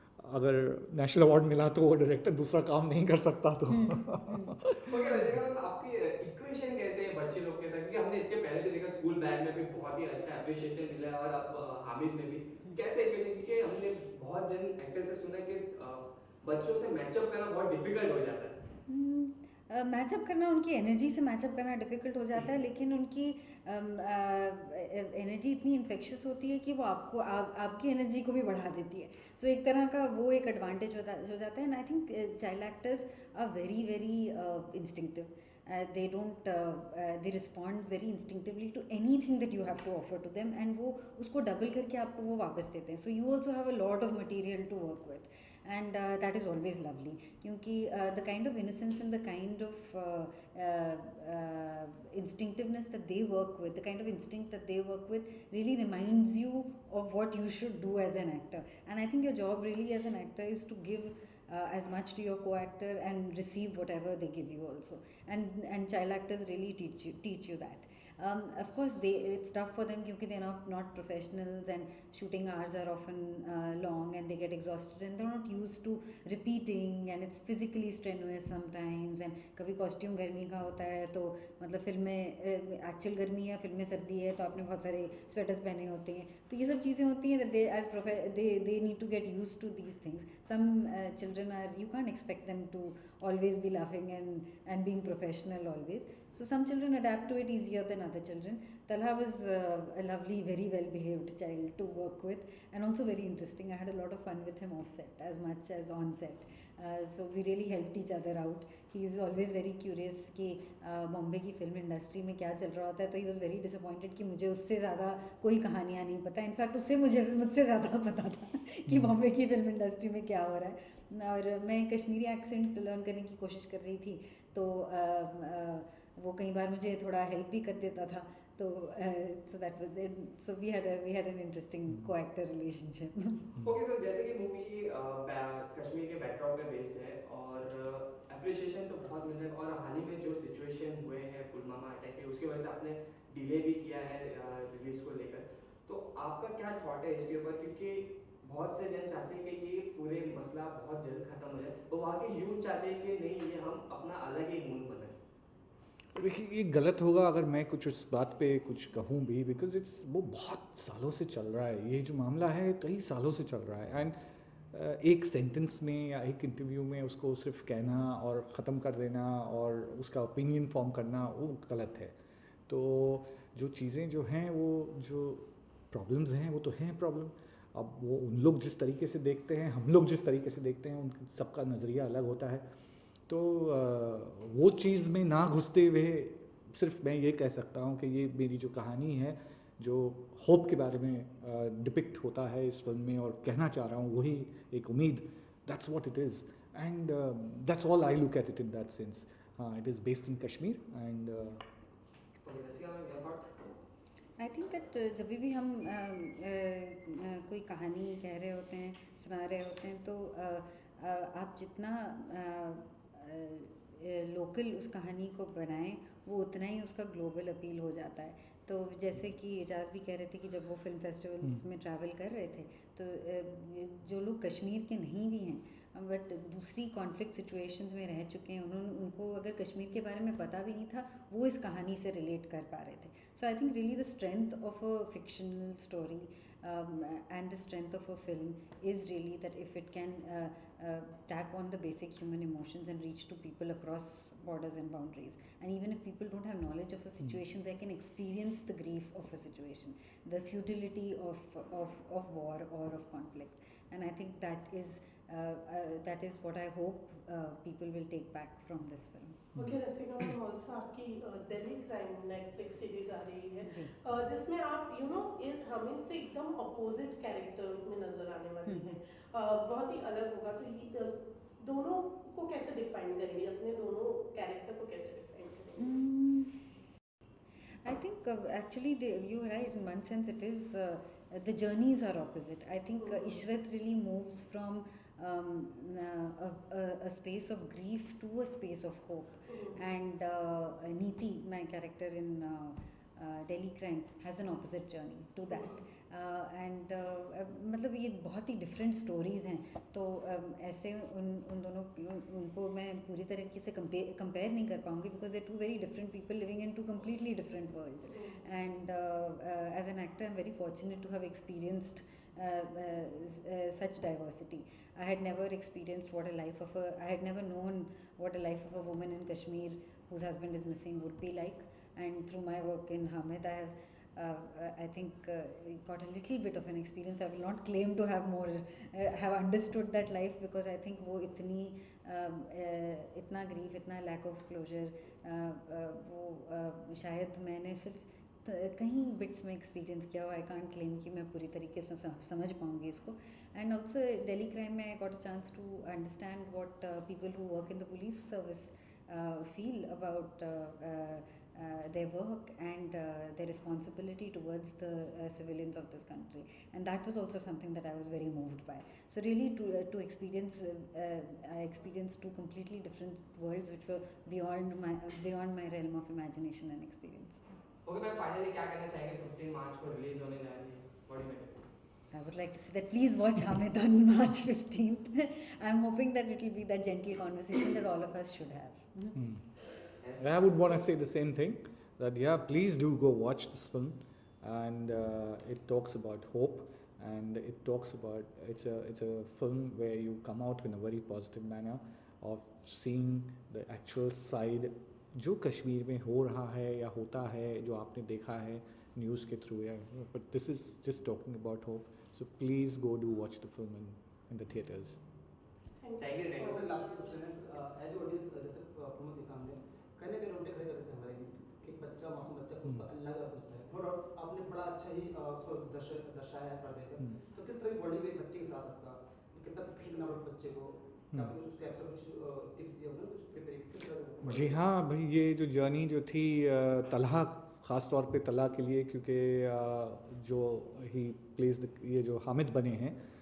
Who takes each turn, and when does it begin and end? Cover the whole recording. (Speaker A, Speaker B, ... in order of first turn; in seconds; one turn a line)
Speaker A: 0.2-5.2
Speaker B: 3.7-4.6
Speaker C: 4.8-18.6
Speaker B: 18.9-133.6
Speaker A: 118.9-119.1
Speaker C: 133.6-155.2
Speaker A: 156.2-164.1
Speaker A: 164.7-172.1
Speaker A: 172.7-182.6
Speaker A: 183.3-201.6
Speaker C: 202.4-203.5
Speaker B: 204.4-259.6
Speaker D: 259.6-276.0
Speaker B: 263.7-263.9
Speaker B: 268.7-269.0
Speaker B: 275.8-276.7
Speaker B: 277.8-367.6
Speaker C: 367.9-371.6
Speaker B: 372.1-379.2
Speaker A: 379.1-379.4
Speaker C: 380.0-380.3
Speaker A: 380.2-405.0
Speaker C: 406.0-406.6
Speaker E: 406.5-424.6
Speaker A: 424.2-433.0